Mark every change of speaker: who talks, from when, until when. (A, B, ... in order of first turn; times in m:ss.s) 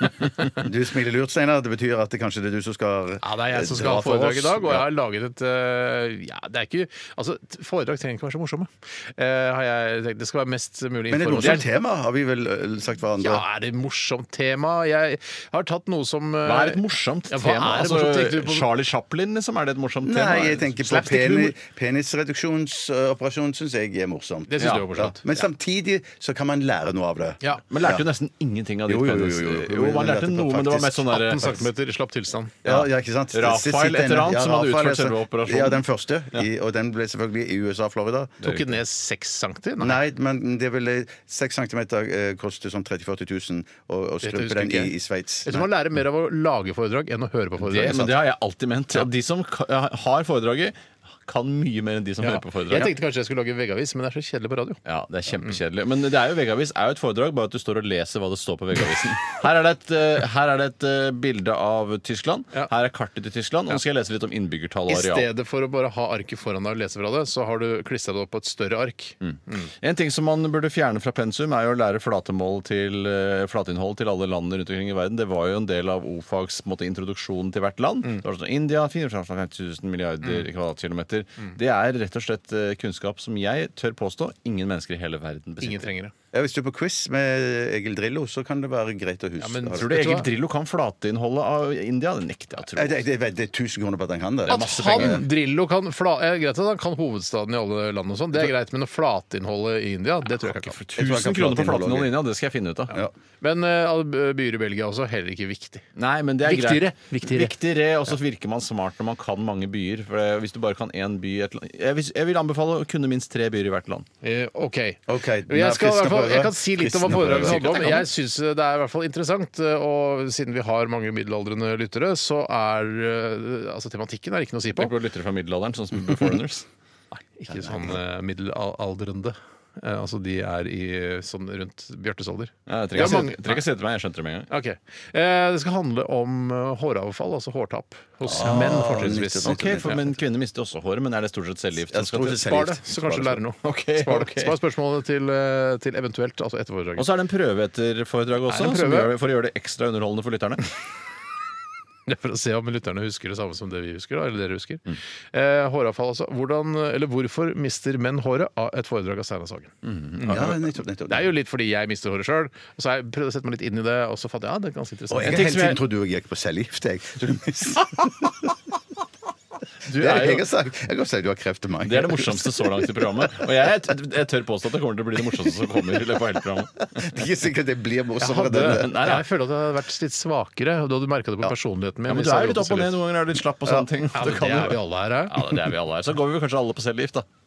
0:00.6-0:04.8 A
0:03.2-0:11.6 B
0:11.1-0:13.4 A
0:11.4-0:11.6 C
0:13.2-0:18.6 B
0:16.4-0:21.6 C
0:20.0-0:28.0 A
0:24.5-0:25.2 B
0:24.6-0:24.9 C
0:27.7-0:31.7 C
0:28.9-0:31.1 A
0:31.1-0:32.6 B
0:32.6-0:35.8 C
0:32.6-0:38.5 A
0:38.4-0:40.0 B
0:39.8-0:45.7 A
0:44.2-0:44.9 B
0:45.4-0:48.0 B
0:47.6-0:48.1 A
0:47.7-0:52.9 C
0:52.2-0:54.8 B
0:54.8-1:05.3 C
1:04.9-1:09.7 B
1:09.2-1:25.9 C
1:25.6-1:26.1 B
1:26.3-1:30.0 A
1:29.4-1:30.3 B
1:29.8-1:33.0 C
1:32.7-1:35.2 A
1:34.4-1:35.2 C
1:34.5-1:40.8 B
1:40.8-1:43.0 C
1:40.9-1:42.1 A
1:43.4-1:45.8 B
1:46.0-1:54.1 C
1:46.4-1:47.5 B
1:54.2-2:04.9 B
1:55.1-1:58.1 A
1:57.2-1:58.0 C
2:04.8-2:06.6 C
2:07.1-2:13.6 B
2:07.5-2:07.9 A
2:12.7-2:14.5 C
2:14.5-2:19.8 B
2:18.2-2:20.0 A
2:18.4-2:18.8 C
2:19.4-2:22.4 C
2:21.9-2:23.4 A
2:22.3-2:27.0 B
2:23.6-2:24.5 C
2:27.0-2:30.6 C
2:28.5-2:29.1 B
2:32.0-2:40.6 B
2:39.8-2:40.5 C
2:40.3-2:41.3 A
2:41.1-2:45.6 B
2:45.1-2:48.5 A
2:45.2-2:45.8 C
2:49.8-2:50.5 C
2:49.9-2:53.4 A
2:51.8-2:57.1 C
2:56.9-2:59.2 A
2:58.2-3:03.0 B
2:58.4-2:59.2 C
3:02.0-3:07.2 C
3:04.1-3:05.5 B